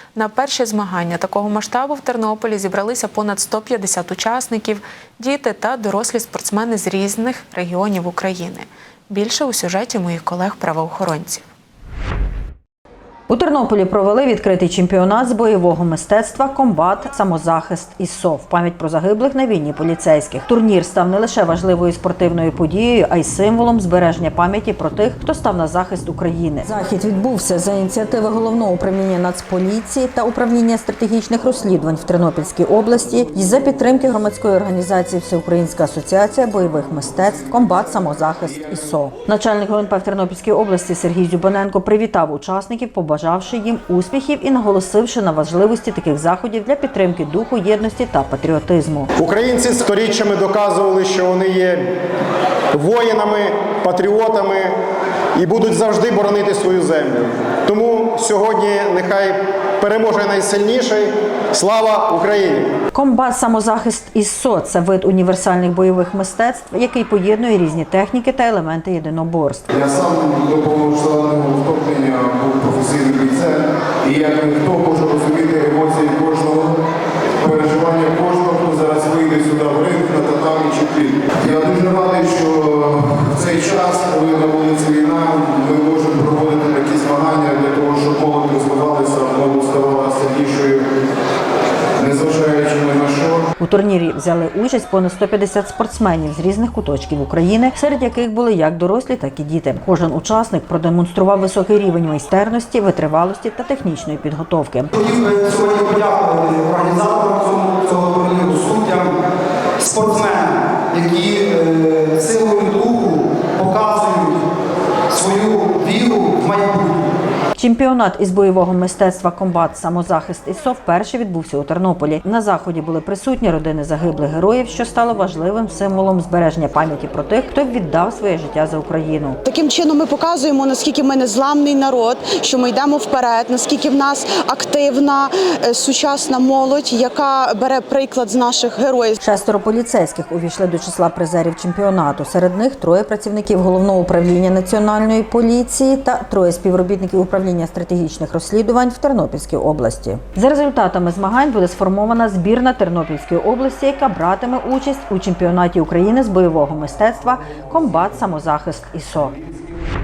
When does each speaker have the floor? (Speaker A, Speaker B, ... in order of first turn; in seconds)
Speaker A: 0.1-11.5
Speaker B: 13.3-49.1, 62.9-69.7, 93.6-104.9, 117.6-129.4, 139.2-159.4
Speaker C: 49.3-51.8, 52.8-54.6, 55.4-59.3, 59.8-61.0, 61.6-62.6
Speaker D: 69.7-76.8, 77.4-90.8, 92.0-93.5
Speaker E: 104.9-109.2, 109.8-114.4, 115.1-117.0
Speaker F: 129.4-139.2